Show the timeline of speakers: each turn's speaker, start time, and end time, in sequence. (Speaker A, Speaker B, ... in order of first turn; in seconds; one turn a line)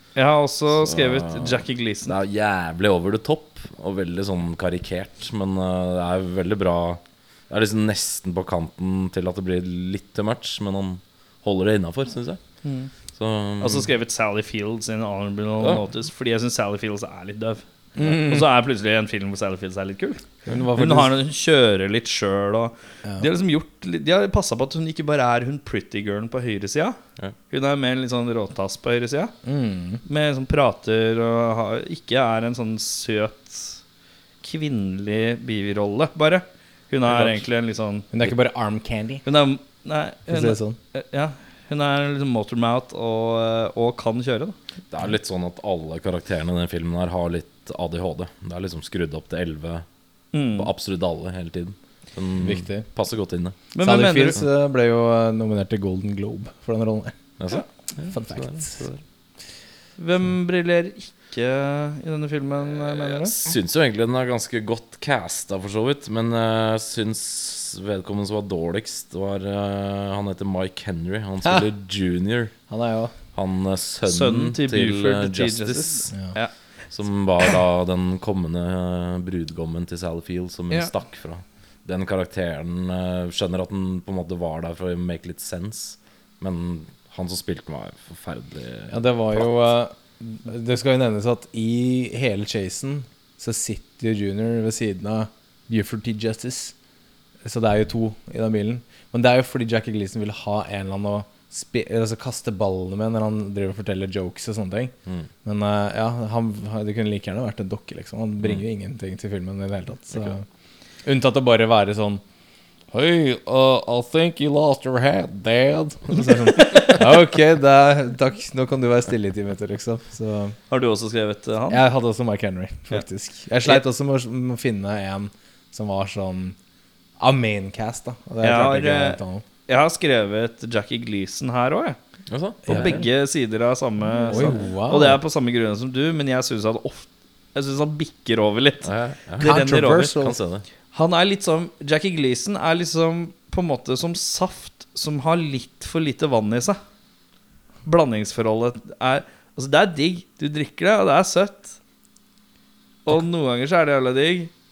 Speaker A: 0.2-2.1
Speaker B: 0.8-12.4
Speaker A: 12.6-12.9
Speaker B: 13.1-13.9
Speaker A: 13.6-20.2
Speaker C: 18.0-18.5
Speaker C: 20.5-21.1
Speaker A: 20.8-27.0
Speaker A: 27.5-29.3
Speaker C: 29.4-30.0
Speaker A: 30.1-33.8
Speaker A: 34.4-38.1
Speaker B: 37.1-37.4
Speaker C: 38.1-39.2
Speaker A: 39.2-44.6
Speaker C: 40.3-40.8
Speaker B: 44.9-49.9
Speaker A: 50.3-50.7
Speaker B: 50.6-53.6
Speaker C: 52.4-52.9
Speaker A: 53.8-54.4
Speaker C: 53.8-57.2
Speaker B: 57.4-59.0
Speaker C: 58.1-58.8
Speaker A: 60.0-63.4
Speaker B: 63.0-72.6
Speaker C: 72.7-73.1
Speaker B: 73.3-76.1
Speaker A: 74.0-76.5
Speaker B: 76.9-89.5
Speaker C: 88.9-96.7
Speaker C: 97.4-104.9
Speaker C: 105.4-110.5
Speaker C: 111.0-112.2
Speaker C: 112.9-120.5
Speaker A: 120.7-121.8
Speaker C: 121.7-126.6
Speaker C: 127.2-129.4
Speaker A: 128.4-132.0
Speaker B: 132.3-133.0
Speaker C: 132.7-133.0
Speaker A: 132.7-138.9
Speaker C: 134.3-135.2
Speaker B: 138.8-140.7
Speaker A: 139.4-140.1
Speaker C: 139.4-140.4
Speaker A: 140.9-146.8
Speaker A: 147.8-151.8
Speaker A: 153.1-154.5